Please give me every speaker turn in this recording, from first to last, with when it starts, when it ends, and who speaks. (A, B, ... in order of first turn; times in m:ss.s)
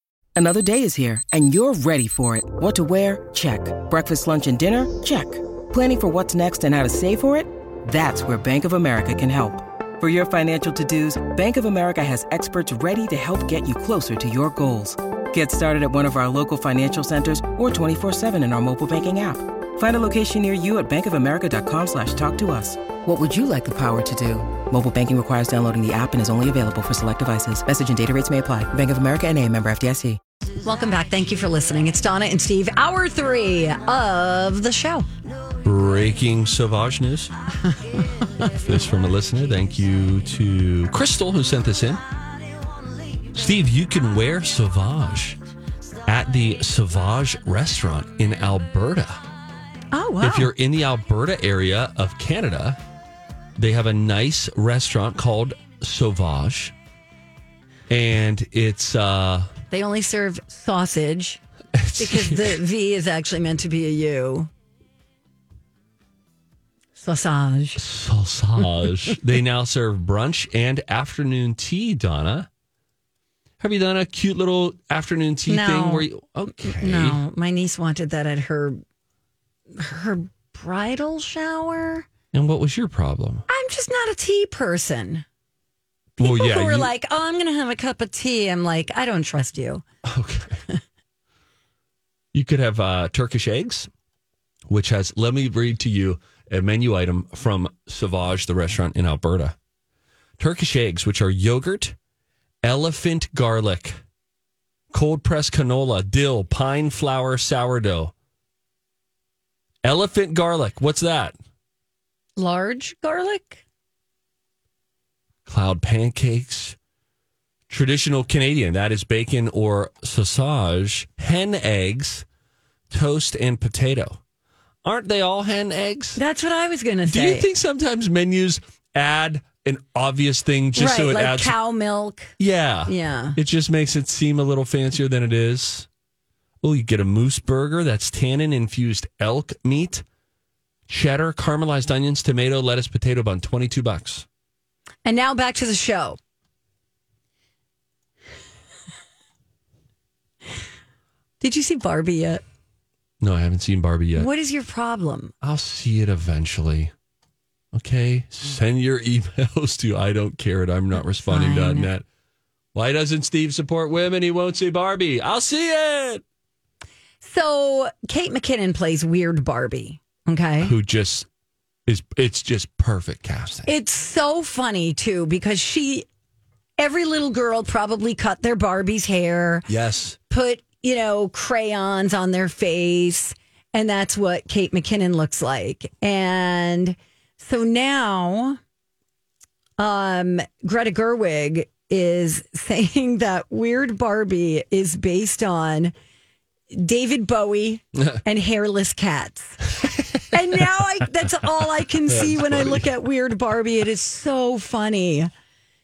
0:00.4-0:30.2 A
0:30.6-0:35.1 B
0:35.6-0:37.3 C
0:37.7-0:38.5 B
0:38.5-0:42.0 C
0:43.3-0:45.4 C
0:46.0-0:49.2 C
0:49.9-0:50.5 B
0:50.2-0:52.8 C
0:53.6-0:56.7 C
0:57.9-0:59.5 C
0:59.7-1:01.4 B
1:01.7-1:02.6 C
1:02.0-1:04.5 B
1:07.0-1:07.8 B
1:07.8-1:12.5 C
1:13.6-1:17.2 C
1:15.5-1:18.8 B
1:19.7-1:22.1 B
1:22.3-1:23.4 C
1:23.5-1:25.2 B
1:26.2-1:29.8 B
1:26.2-1:26.9 C
1:30.0-1:30.6 C
1:32.3-1:33.9 C
1:34.7-1:39.6 C
1:40.4-1:42.0 C
1:42.6-1:44.0 C
1:44.9-1:48.1 C
1:49.8-1:51.4 C
1:52.4-1:53.6 B
1:55.4-1:56.8 C
1:57.7-2:02.2 C
2:02.9-2:04.2 C
2:04.8-2:06.2 C
2:06.2-2:07.5 B
2:07.0-2:11.5 C
2:10.7-2:12.3 B
2:12.4-2:15.9 C
2:12.9-2:13.4 B
2:16.6-2:20.0 C
2:20.9-2:24.2 C
2:25.0-2:26.2 B
2:31.4-2:32.4 B
2:33.2-2:34.3 C
2:34.1-2:35.3 B
2:35.4-2:36.9 C
2:37.7-2:42.0 C
2:41.3-2:41.9 B
2:42.7-2:46.2 C
2:47.2-2:50.7 B
2:50.6-2:51.3 C
2:51.8-2:53.7 C
2:53.7-2:56.1 B
2:56.8-2:59.7 B
2:59.7-3:00.2 C
3:00.3-3:08.6 B
3:09.8-3:15.9 B
3:16.7-3:25.3 B
3:22.1-3:22.8 C